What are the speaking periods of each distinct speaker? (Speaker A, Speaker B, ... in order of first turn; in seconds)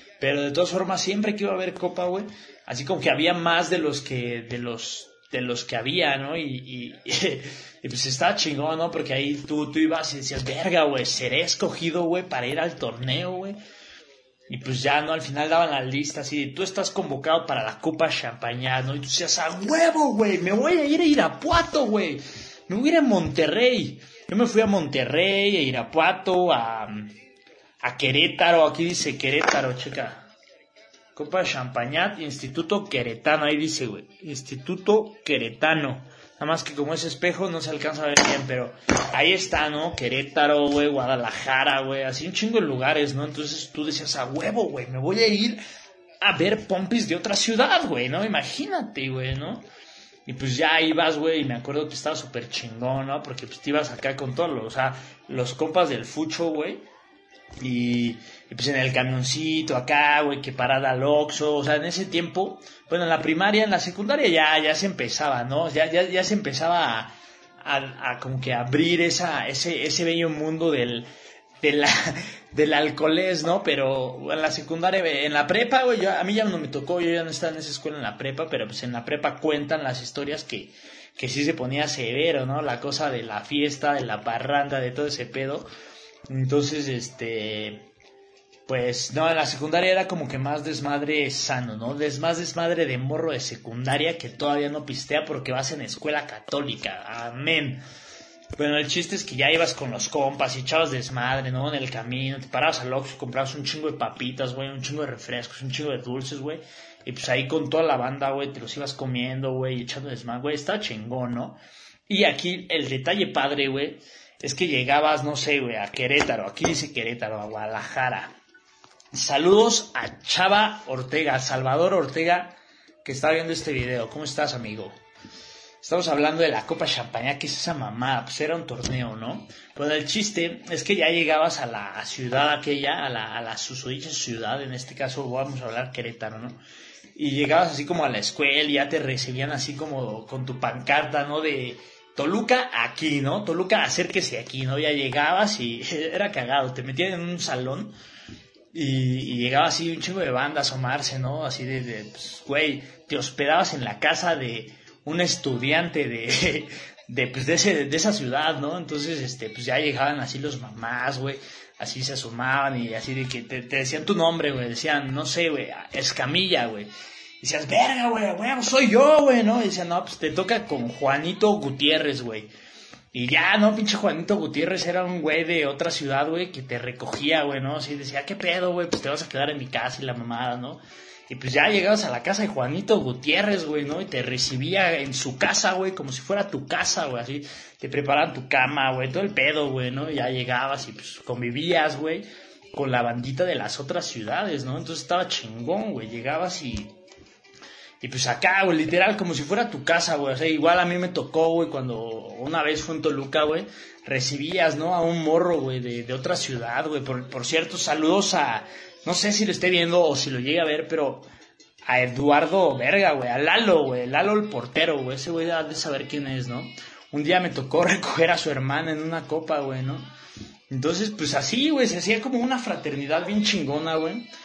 Speaker A: 0.2-13.6, 14.5-27.1, 27.8-30.3, 31.1-45.6, 46.2-49.7, 50.3-56.8, 57.6-71.1, 71.6-85.7, 86.3-87.9, 88.7-97.8, 98.6-118.3, 119.1-125.0, 125.8-136.6, 137.2-147.9, 148.7-166.9, 167.4-172.5, 173.1-197.0, 198.0-211.3, 211.8-220.1, 220.7-224.3